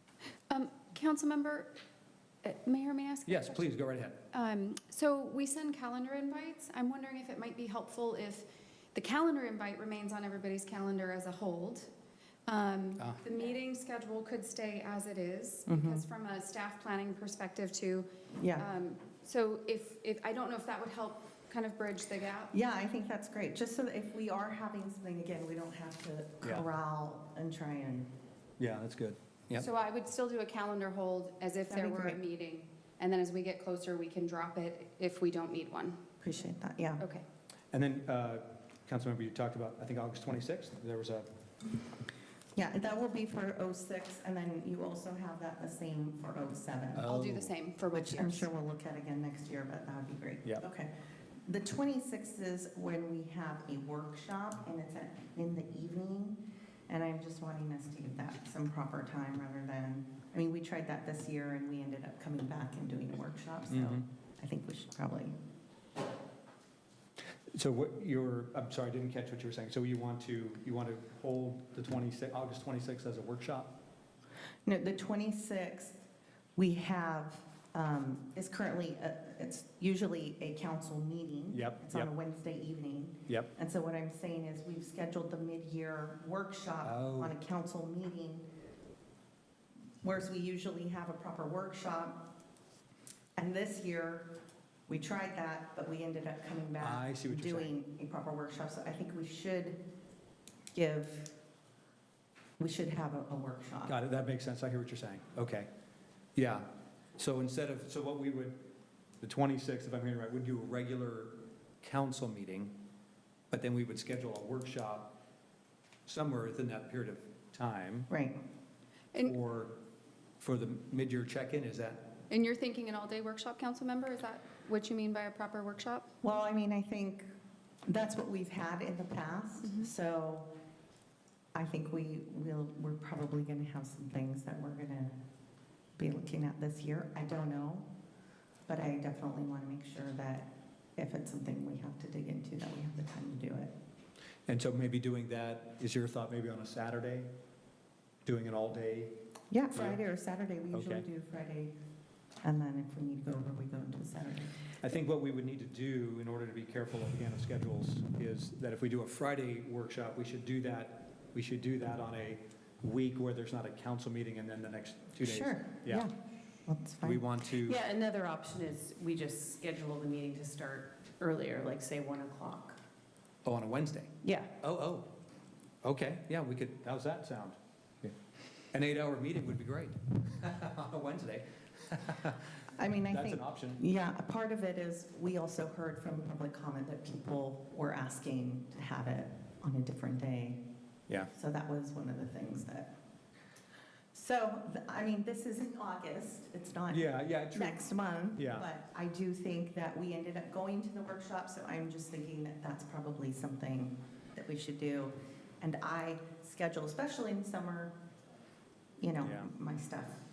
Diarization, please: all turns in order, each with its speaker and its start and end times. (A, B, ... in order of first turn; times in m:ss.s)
0:00.5-0:01.8 A
0:02.4-0:03.6 A
0:03.3-0:04.2 B
0:04.3-0:11.9 A
0:12.5-0:22.5 A
0:13.0-0:13.2 B
0:15.7-0:16.0 C
0:18.4-0:18.7 C
0:22.5-0:28.1 C
0:28.6-0:29.7 B
0:29.6-0:36.0 A
0:31.7-0:32.2 C
0:36.2-0:37.0 C
0:37.0-0:37.2 A
0:37.7-0:41.3 B
0:42.6-0:47.1 C
0:47.0-0:47.5 B
0:47.1-0:48.5 A
0:47.9-0:50.9 C
0:51.4-1:05.3 C
1:03.7-1:04.0 B
1:07.5-1:13.8 B
1:14.7-1:16.0 C
1:16.6-1:28.4 C
1:21.5-1:22.1 B
1:26.8-1:27.3 B
1:30.0-1:32.2 C
1:33.4-1:34.3 C
1:34.9-1:39.8 C
1:36.8-1:37.7 B
1:40.7-1:41.3 C
1:42.6-1:44.0 C
1:43.9-1:45.7 B
1:46.4-1:46.7 B
1:47.2-1:48.6 B
1:49.2-1:52.8 B
1:53.5-1:55.2 B
1:56.1-1:58.1 B
1:58.1-1:58.4 C
1:59.2-1:59.8 B
2:00.4-2:02.1 B
2:02.3-2:06.1 A
2:06.2-2:07.3 C
2:07.9-2:10.5 C
2:09.7-2:09.9 A
2:11.5-2:15.2 C
2:16.0-2:17.9 C
2:18.7-2:23.7 C
2:24.5-2:27.3 B
2:28.2-2:29.1 B
2:29.5-2:31.8 C
2:29.7-2:30.0 B
2:30.7-2:31.1 B
2:32.4-2:34.6 C
2:34.8-2:46.1 B
2:45.2-2:46.1 C
2:46.7-2:47.2 C
2:47.0-2:47.8 B
2:47.6-2:52.8 D
2:53.4-2:55.1 B
2:54.2-2:54.5 D
2:55.8-2:58.1 B
2:58.7-3:02.4 B
3:02.8-3:10.6 C
3:03.1-3:03.8 B
3:11.3-3:12.9 C
3:14.1-3:27.9 C
3:16.9-3:18.7 B
3:29.0-3:30.2 C
3:29.2-3:29.5 B